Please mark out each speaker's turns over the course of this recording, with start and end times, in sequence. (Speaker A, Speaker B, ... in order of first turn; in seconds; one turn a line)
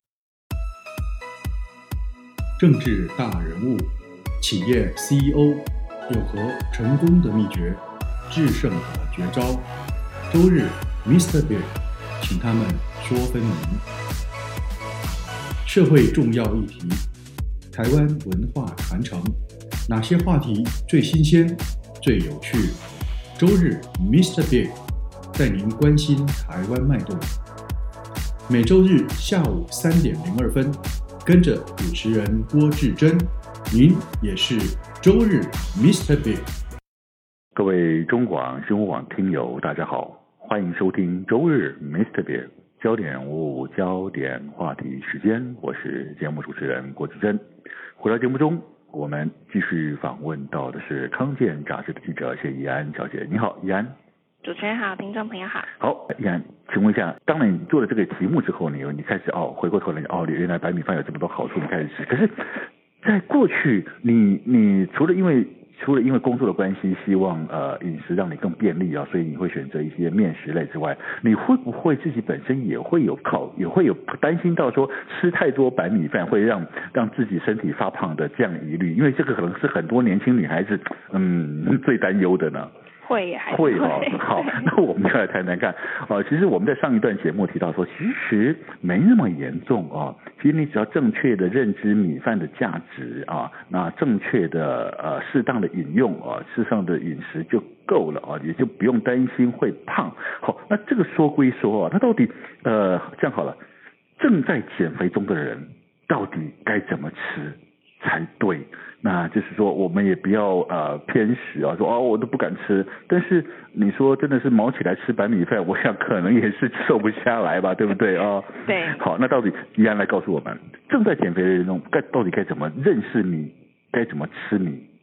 Speaker A: 2.6-9.7
Speaker A: 10.3-13.8
Speaker A: 15.6-17.1
Speaker A: 17.7-22.8
Speaker A: 23.4-24.8
Speaker A: 25.3-27.4
Speaker A: 28.5-36.5
Speaker B: 37.5-47.4
Speaker B: 48.0-53.9
Speaker C: 54.4-55.7
Speaker B: 55.8-82.7
Speaker C: 83.0-84.7
Speaker B: 83.5-103.6
Speaker B: 104.2-124.9
Speaker C: 118.6-119.0